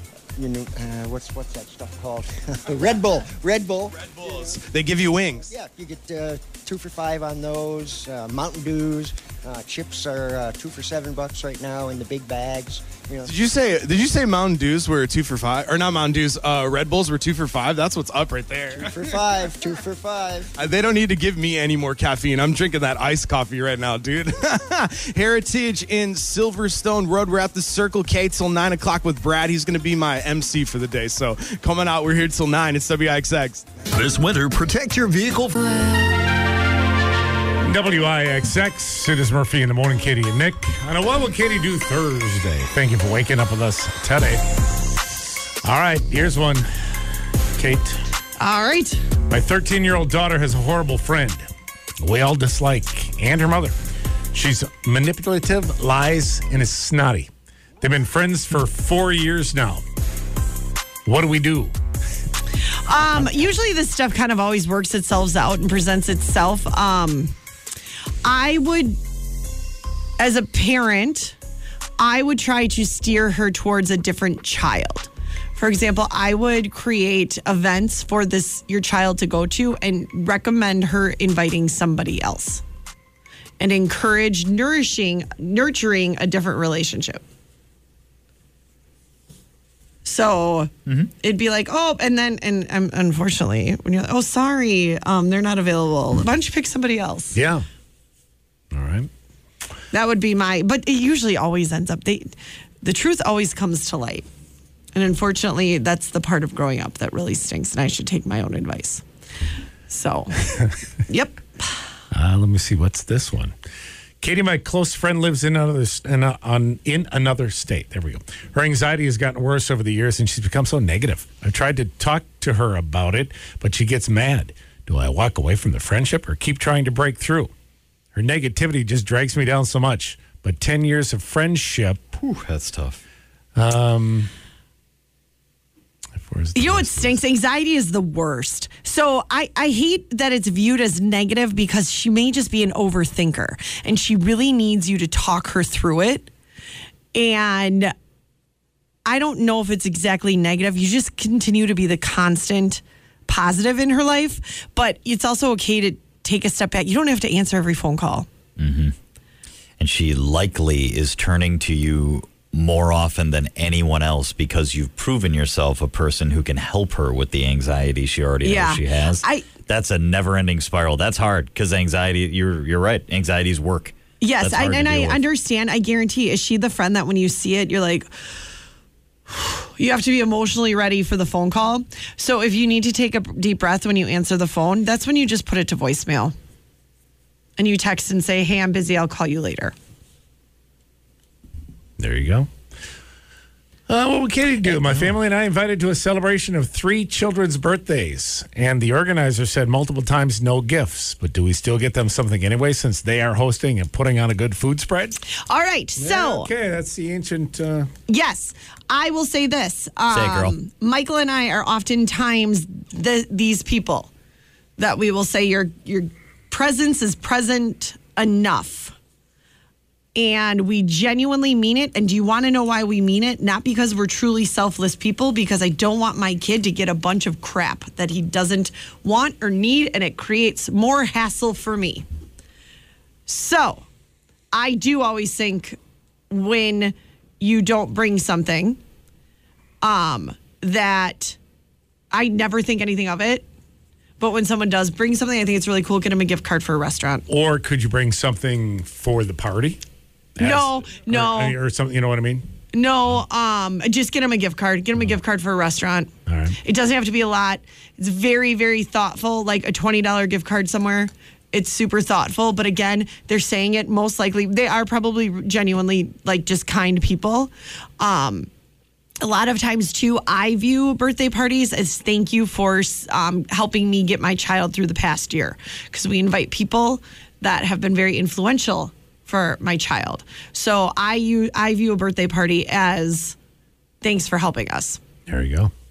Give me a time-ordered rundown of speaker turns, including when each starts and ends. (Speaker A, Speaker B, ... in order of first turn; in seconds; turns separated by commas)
Speaker A: 0.4-4.6, Speaker B: 4.0-5.5, Speaker A: 5.5-13.3, Speaker B: 13.2-19.0, Speaker A: 18.8-20.5, Speaker B: 20.6-33.7, Speaker C: 33.9-36.2, Speaker D: 37.6-44.4, Speaker D: 45.6-46.7, Speaker D: 47.6-48.0, Speaker E: 48.4-49.0, Speaker D: 49.3-51.5, Speaker D: 52.0-53.8, Speaker D: 54.3-57.3, Speaker D: 57.8-59.8, Speaker D: 61.1-61.7, Speaker E: 62.9-67.3, Speaker E: 68.2-69.0, Speaker E: 70.2-71.4, Speaker E: 72.0-82.6, Speaker E: 83.6-87.2, Speaker E: 90.0-90.7, Speaker F: 90.9-91.1, Speaker E: 91.2-97.4, Speaker D: 97.3-97.7, Speaker D: 98.7-99.1, Speaker E: 99.9-104.2, Speaker E: 105.0-109.0, Speaker E: 109.9-110.5, Speaker E: 111.1-111.8, Speaker D: 112.1-113.5, Speaker D: 114.2-127.5, Speaker D: 128.1-132.1, Speaker F: 132.2-133.0, Speaker D: 133.6-134.3, Speaker D: 136.2-137.2, Speaker E: 136.6-146.3, Speaker E: 147.1-147.9, Speaker E: 149.1-158.3, Speaker F: 158.6-158.9, Speaker F: 159.8-175.2, Speaker E: 168.4-169.5, Speaker E: 174.2-178.1, Speaker E: 179.3-186.3, Speaker E: 187.6-189.8, Speaker D: 192.0-192.5, Speaker D: 193.9-205.2, Speaker E: 205.4-206.5, Speaker D: 206.0-207.9, Speaker E: 208.1-214.1, Speaker F: 210.1-210.6, Speaker E: 214.8-218.9, Speaker E: 220.2-232.1, Speaker E: 233.3-233.8, Speaker E: 234.5-235.8, Speaker E: 236.3-238.8, Speaker E: 239.8-241.4, Speaker E: 242.1-243.4, Speaker E: 244.2-247.3, Speaker D: 247.3-249.8, Speaker D: 250.4-252.5, Speaker E: 250.4-251.6, Speaker E: 252.7-256.1, Speaker D: 256.3-256.6, Speaker E: 256.6-268.5, Speaker E: 269.2-283.4, Speaker E: 284.0-285.0, Speaker D: 285.3-285.7